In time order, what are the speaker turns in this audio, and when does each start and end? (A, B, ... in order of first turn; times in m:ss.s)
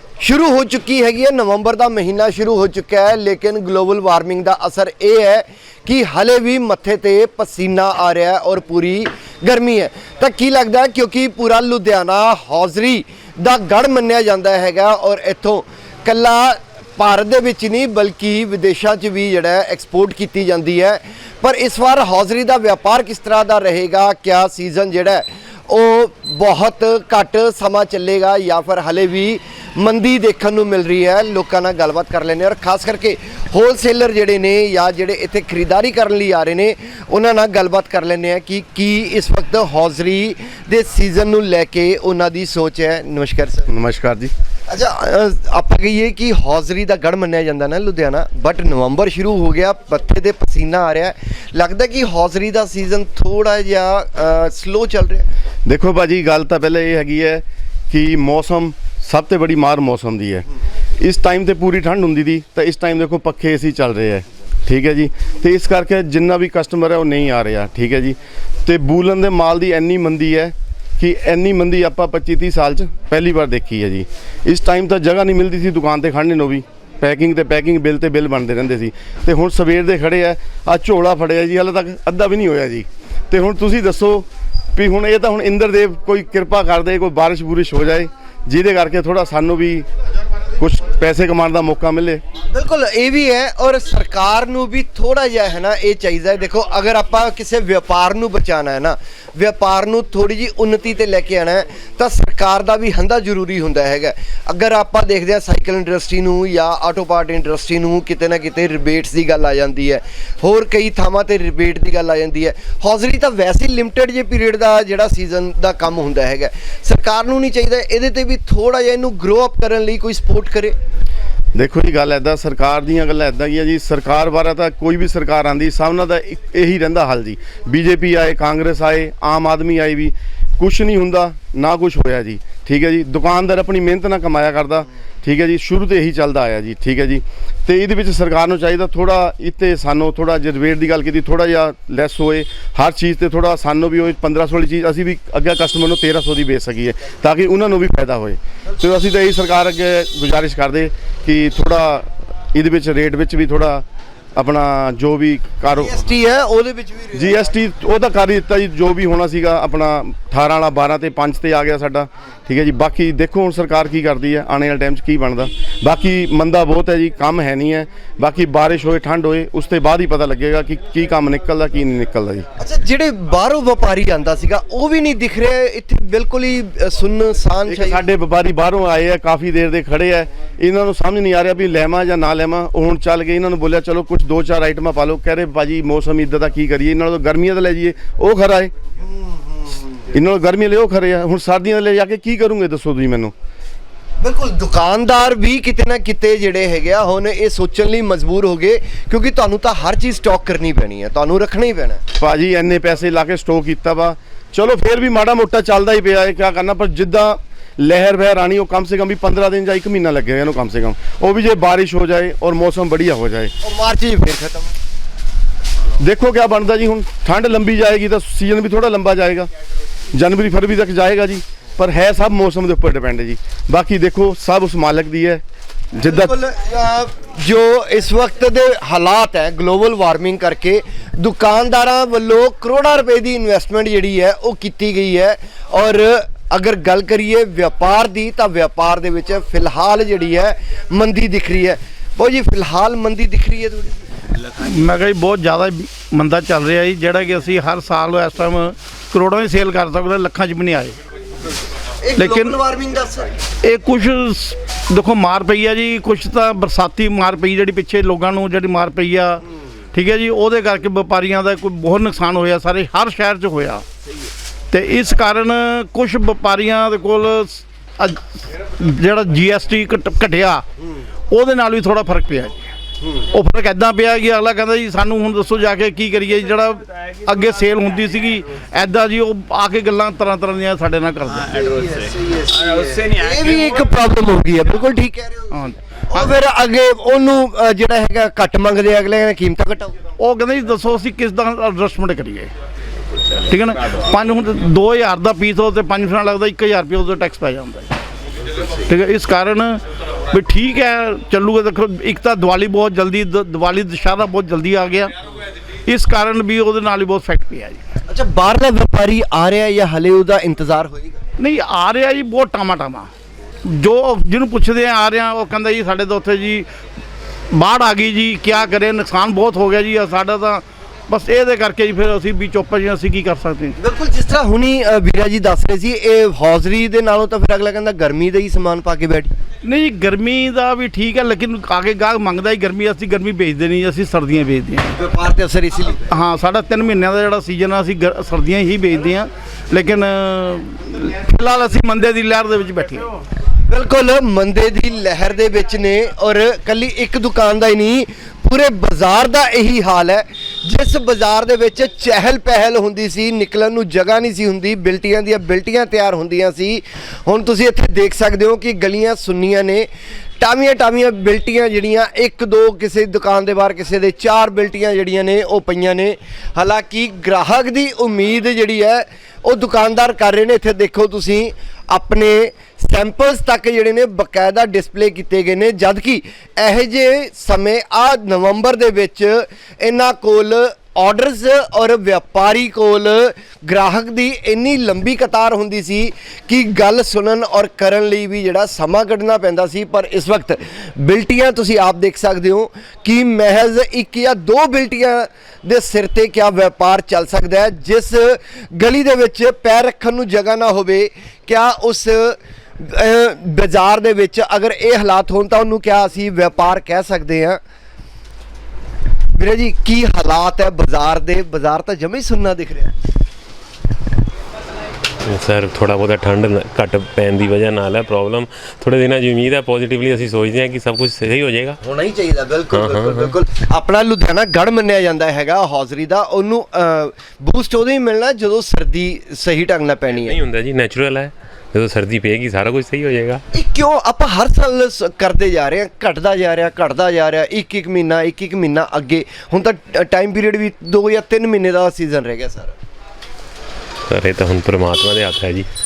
0:00.2-0:43.7 A
0:43.7-0:44.3 B
0:44.7-0:55.3 A
0:55.6-1:00.4 B
1:01.0-1:29.8 B
1:30.6-1:32.2 B
1:32.5-2:00.7 A
2:01.5-2:33.8 B
2:34.4-2:36.0 B
2:35.7-2:37.3 A
2:37.1-2:52.5 B
2:52.6-2:58.0 A
2:57.7-3:08.7 B
3:09.0-3:09.9 A
3:10.1-3:13.3 B
3:14.2-3:22.0 A
3:22.2-3:33.5 B
3:33.6-3:34.7 A
3:36.0-3:39.5 B
3:40.1-3:45.4 B
3:46.0-3:46.3 B
3:46.0-4:04.0 A
4:04.5-4:11.0 C
4:12.0-4:13.3 A
4:12.2-4:12.6 C
4:13.6-4:23.8 C
4:24.7-4:30.6 C
4:31.3-4:32.5 C
4:33.3-4:41.5 C
4:41.5-4:45.6 A
4:46.1-4:50.0 A
4:50.2-4:52.5 C
4:53.4-4:57.9 C
4:58.8-5:05.1 C
5:05.8-5:07.8 C
5:08.1-5:11.2 A
5:11.4-5:13.1 C
5:13.6-5:16.7 C
5:17.5-5:23.8 C
5:23.8-5:29.3 A
5:29.6-5:34.9 C
5:35.0-5:36.1 A
5:36.1-5:43.1 C
5:43.7-5:59.9 A
6:00.4-6:47.6 A
6:49.4-6:52.9 A
6:55.2-7:01.8 D
7:01.8-7:10.4 A
7:02.7-7:03.3 D
7:10.1-7:13.4 D
7:13.5-7:22.7 A
7:24.1-7:25.7 D